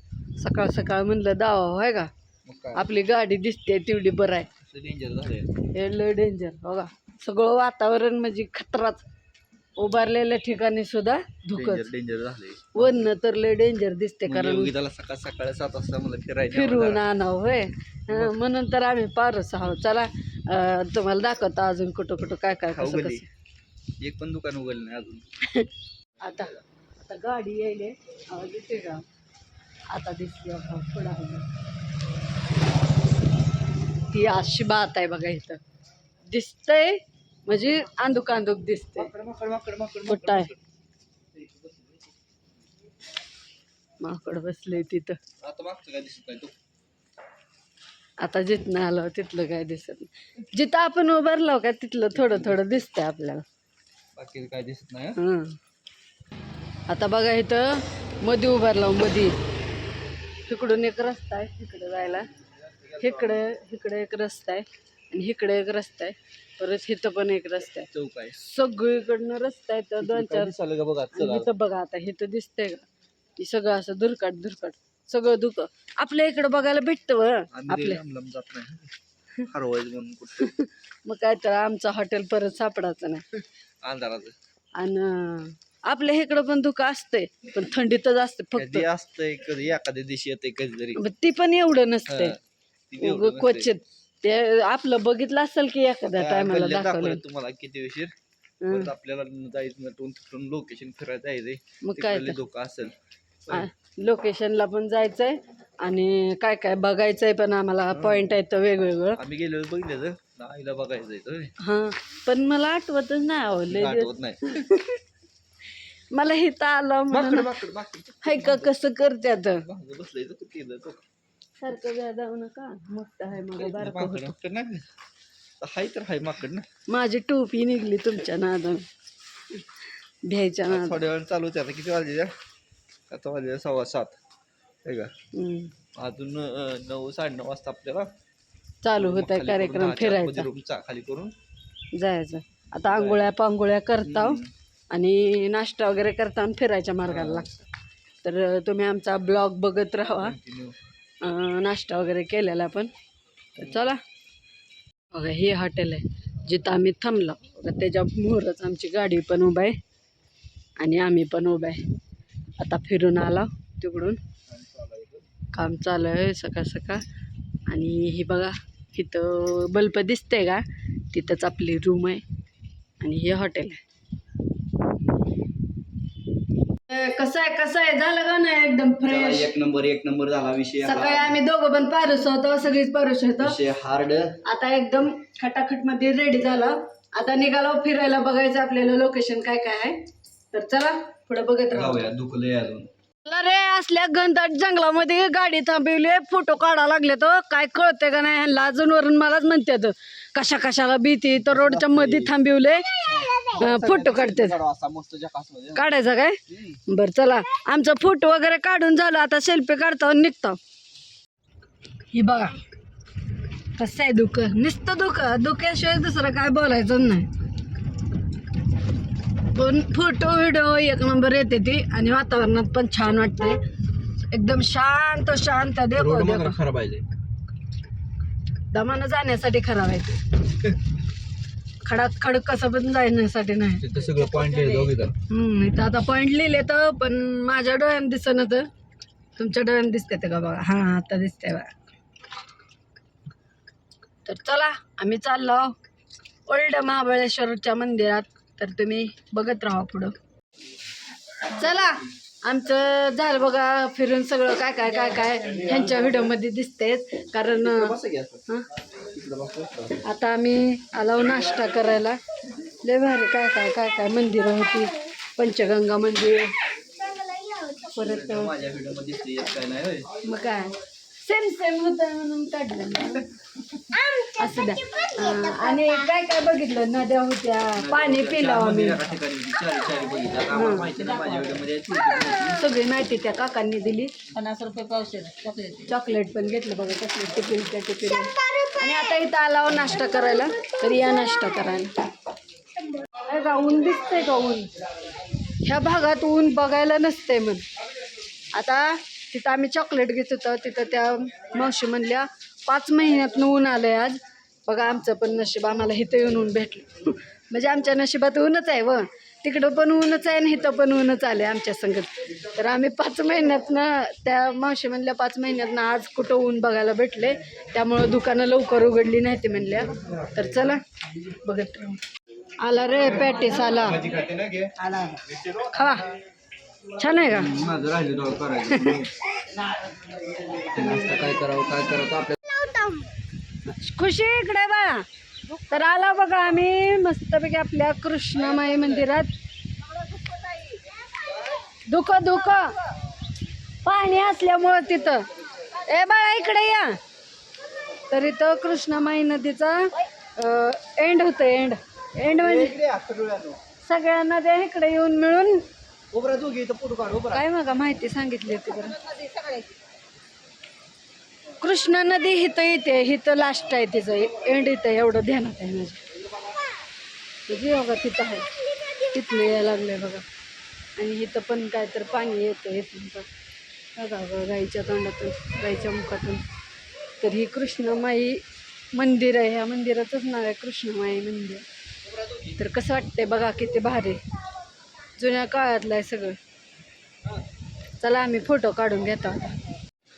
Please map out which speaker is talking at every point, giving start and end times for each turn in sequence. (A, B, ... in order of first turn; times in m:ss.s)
0:00.4-0:02.1 A
0:02.4-0:02.9 B
0:02.7-0:04.5 A
0:04.6-0:05.5 B
0:05.7-0:09.0 A
0:09.8-0:11.9 A
0:11.5-0:13.1 B
0:12.7-0:14.7 A
0:14.2-0:17.0 B
0:16.5-0:23.3 A
0:18.1-0:18.4 B
0:22.7-0:23.2 B
0:24.0-0:25.3 B
0:26.2-0:29.0 A
0:29.9-0:31.5 A
0:34.1-0:35.6 A
0:36.3-0:39.1 A
0:39.0-0:40.6 B
0:40.1-0:40.5 A
0:41.3-0:42.2 B
0:44.0-0:45.2 A
0:45.4-0:46.5 B
0:48.2-0:53.4 A
0:52.2-0:52.5 B
0:54.2-0:55.2 B
0:55.2-0:55.6 A
0:56.9-0:59.4 A
1:00.5-1:02.3 A
1:02.7-1:03.4 B
1:03.0-1:10.5 A
1:07.9-1:08.4 B
1:10.0-1:11.5 B
1:11.1-1:12.8 A
1:13.4-1:18.0 A
1:17.5-1:20.5 B
1:20.4-1:23.4 A
1:23.8-1:24.3 B
1:24.8-1:28.8 A
1:28.6-1:31.0 B
1:31.0-1:32.3 A
1:32.1-1:32.4 B
1:32.9-1:33.8 B
1:33.0-1:37.2 A
1:36.2-1:38.1 B
1:38.6-1:38.9 A
1:38.7-1:42.9 B
1:41.8-1:42.4 A
1:43.5-1:49.2 A
1:47.9-1:48.4 B
1:49.2-1:51.5 B
1:51.6-1:55.0 A
1:53.7-1:54.6 B
1:56.1-1:57.6 A
1:57.1-1:58.7 B
1:58.2-1:59.7 A
1:59.6-2:01.0 B
2:01.6-2:04.4 A
2:03.5-2:04.9 B
2:05.6-2:06.7 B
2:06.9-2:08.8 A
2:10.2-2:11.0 A
2:10.7-2:12.3 B
2:13.1-2:14.1 B
2:14.8-2:15.1 B
2:15.3-2:15.7 A
2:15.9-2:18.1 B
2:18.8-2:20.5 A
2:19.0-2:21.3 B
2:21.9-2:27.5 A
2:22.8-2:23.2 B
2:24.0-2:24.5 B
2:27.1-2:27.6 B
2:28.2-2:30.4 A
2:30.1-2:30.8 B
2:31.2-2:32.9 A
2:33.6-2:34.0 A
2:35.1-2:39.8 A
2:40.8-2:41.8 A
2:42.6-2:44.2 A
2:44.5-2:45.2 B
2:45.5-2:47.0 A
2:47.7-2:52.2 A
2:53.0-2:53.8 A
2:56.9-2:59.5 A
2:59.0-3:01.4 B
3:00.8-3:03.6 A
3:03.4-3:04.4 B
3:04.4-3:12.1 A
3:11.7-3:12.9 B
3:13.2-3:24.6 A
3:21.4-3:22.3 B
3:23.0-3:25.8 B
3:25.8-3:30.6 A
3:26.5-3:26.8 B
3:32.1-3:32.6 A
3:33.8-3:37.3 A
3:39.5-3:43.6 A
3:44.3-3:46.6 A
3:45.9-3:47.1 B
3:48.7-3:50.7 A
3:51.8-3:53.8 A
3:53.8-3:55.1 B
3:54.4-3:54.6 C
3:55.3-3:58.7 A
3:59.4-4:01.7 A
4:04.2-4:05.8 A
4:06.5-4:10.1 A
4:11.5-4:18.6 A
4:17.5-4:20.0 B
4:20.0-4:26.6 A
4:27.1-4:27.7 C
4:27.8-4:28.5 A
4:28.0-4:30.2 B
4:30.2-4:33.3 A
4:34.0-4:39.0 A
4:37.8-4:42.6 B
4:40.5-4:40.9 A
4:41.0-4:41.5 C
4:42.4-4:44.1 A
4:44.3-4:45.9 C
4:45.8-4:51.9 A
4:53.2-4:54.7 A
4:55.6-4:57.6 A
4:58.5-5:22.0 A
5:22.6-5:24.1 A
5:23.8-5:25.7 B
5:24.8-5:25.2 C
5:25.6-5:26.1 A
5:27.0-5:27.6 A
5:27.3-5:29.1 B
5:28.7-5:29.1 A
5:30.6-5:32.4 B
5:32.5-5:33.1 C
5:33.6-5:39.3 A
5:40.2-5:40.8 C
5:41.9-5:42.8 A
5:43.8-5:47.0 A
5:48.1-5:52.8 A
5:52.4-5:53.6 B
5:53.8-5:55.6 A
5:56.1-5:57.4 B
5:57.3-5:59.0 A
5:59.1-5:59.7 C
6:01.6-6:06.0 A
6:07.5-6:10.2 A
6:11.0-6:13.3 A
6:13.9-6:16.4 A
6:17.2-6:21.6 A
6:22.4-6:24.2 A
6:25.2-6:26.4 A
6:28.0-6:29.6 A